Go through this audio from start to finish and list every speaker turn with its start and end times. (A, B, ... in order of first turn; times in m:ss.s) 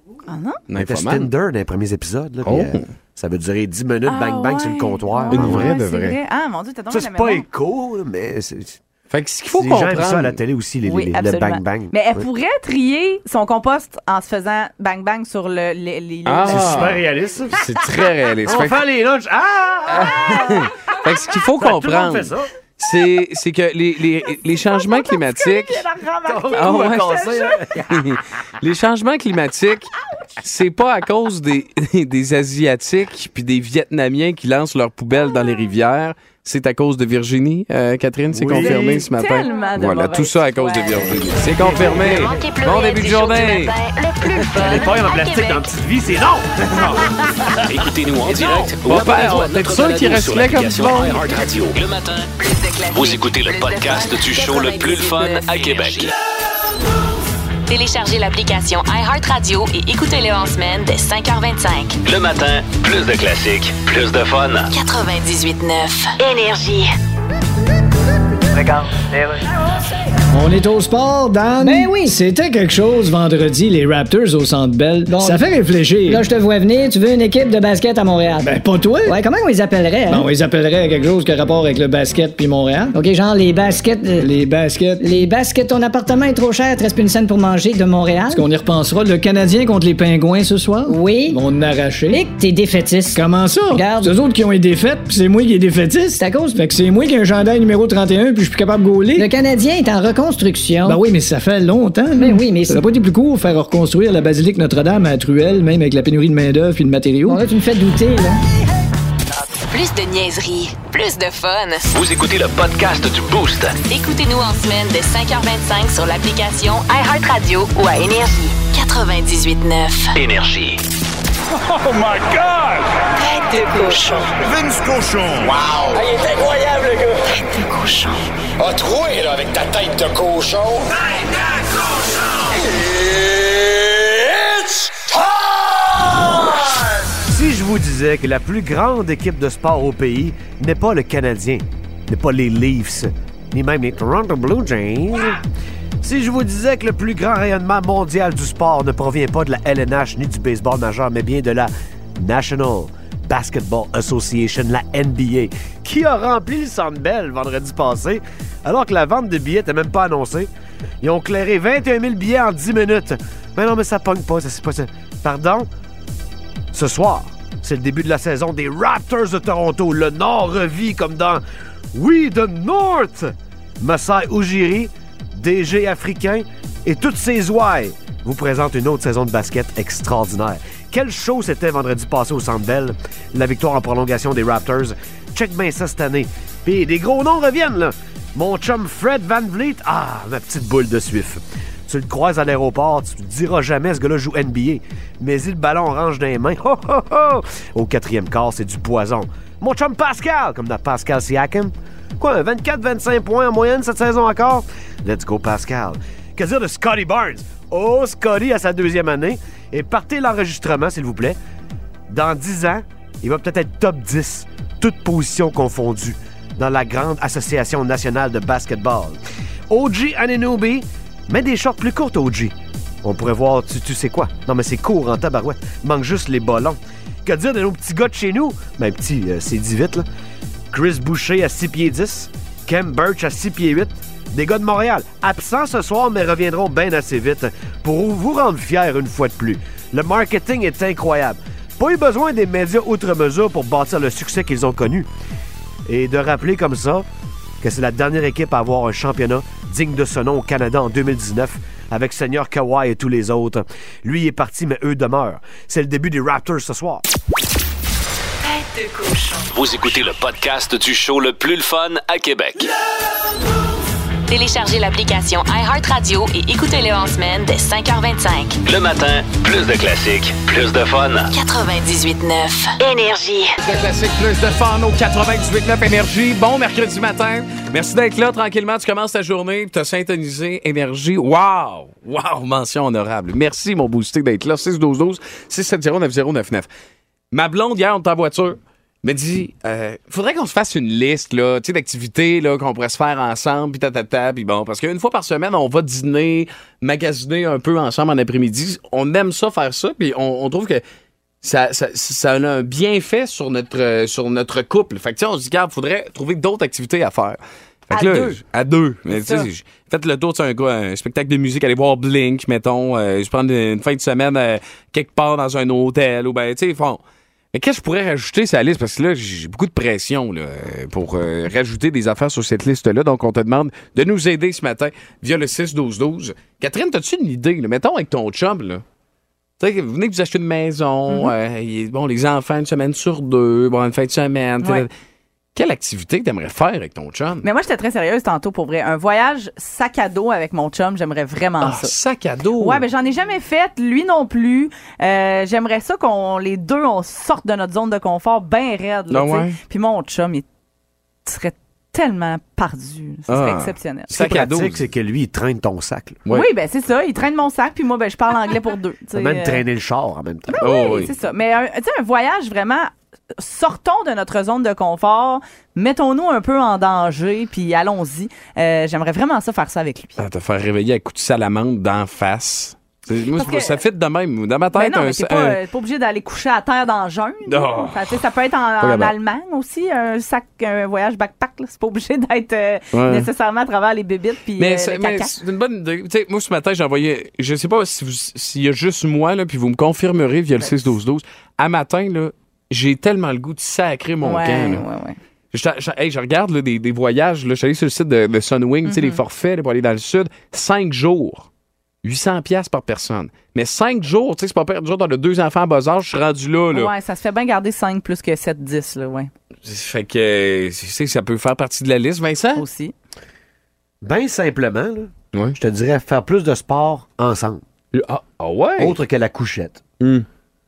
0:00.3-0:00.6 A
0:00.7-0:01.3 B
0:00.8-0:05.7 C
0:02.4-0:02.8 B
0:04.1-0:07.4 A
0:05.3-0:06.2 B
0:06.9-0:08.8 C
0:09.1-0:10.4 B
0:09.5-0:12.3 C
0:10.8-0:16.9 A
0:16.2-0:17.0 B
0:16.4-0:17.7 C
0:17.5-0:18.8 B
0:18.4-0:20.6 C
0:19.9-0:25.8 B
0:20.0-0:20.7 A
0:21.6-0:22.5 C
0:24.3-0:27.6 A
0:26.2-0:28.2 C
0:26.5-0:27.2 B
0:27.9-0:43.7 B
0:38.3-0:39.1 C
0:38.5-0:41.4 A
0:41.6-0:42.4 C
0:41.7-0:45.7 D
0:44.5-0:47.2 C
0:47.6-0:52.3 E
0:48.4-0:51.4 B
0:52.4-0:56.1 D
0:52.9-0:56.1 E
0:57.7-1:02.0 D
1:02.0-1:04.7 E
1:04.7-1:06.9 D
1:08.5-1:09.4 F
1:10.3-1:16.2 G
1:11.6-1:12.1 F
1:15.1-1:15.4 F
1:16.1-1:18.5 F
1:18.4-1:19.2 G
1:19.0-1:20.3 F
1:20.1-1:22.9 G
1:22.9-1:24.3 F
1:24.2-1:25.1 G
1:25.0-1:28.5 F
1:28.3-1:32.2 G
1:30.8-1:31.4 F
1:32.1-1:34.1 F
1:33.1-1:39.3 G
1:36.2-1:36.6 F
1:39.2-1:41.0 F
1:40.8-1:47.4 G
1:42.2-1:42.8 F
1:47.2-1:48.4 F
1:49.7-1:51.9 D
1:51.9-1:53.8 E
1:53.8-2:00.1 D
2:00.1-2:00.8 E
2:01.6-2:02.8 H
2:03.2-2:04.2 D
2:04.1-2:07.1 H
2:07.6-2:08.1 D
2:08.6-2:10.9 H
2:12.6-2:15.1 H
2:17.2-2:25.4 C
2:26.0-2:40.5 C
2:41.0-2:45.7 C
2:46.7-3:31.4 C
3:32.1-3:39.2 C
3:39.7-3:50.0 C
3:50.7-4:05.1 C
4:05.9-4:07.0 C
4:07.6-4:17.0 C
4:18.5-4:19.4 D
4:19.5-4:22.7 E
4:24.3-4:28.6 D
4:28.6-4:31.3 E
4:31.3-4:33.5 D
4:33.6-4:46.7 B
4:47.3-5:00.8 B
5:01.4-5:17.0 B
5:07.9-5:08.4 A
5:09.1-5:09.5 A
5:17.5-5:28.8 B
5:29.6-5:34.9 B
5:35.5-5:37.4 B
5:37.4-5:41.9 A
5:41.6-5:42.8 B
5:42.6-5:50.4 A
5:49.1-5:49.6 B
5:51.2-5:54.1 A
5:53.3-5:54.8 B
5:54.1-5:56.2 C
5:56.3-5:59.6 A
5:59.1-6:00.6 C
6:00.5-6:10.2 A
6:00.6-6:01.1 B
6:10.2-6:15.6 B
6:13.3-6:13.8 A
6:14.7-6:25.4 A
6:17.5-6:18.2 B
6:18.8-6:19.1 B
6:22.9-6:23.3 B
6:24.6-6:34.8 B
6:34.2-6:35.2 A
6:35.5-6:41.5 B
6:38.8-6:39.2 A
6:42.0-6:46.9 B
6:46.7-6:49.3 A
6:49.6-6:52.6 B
6:52.6-6:52.9 A
6:54.0-6:57.6 C
6:57.9-6:59.0 B
6:58.8-6:59.8 C
7:00.0-7:00.2 B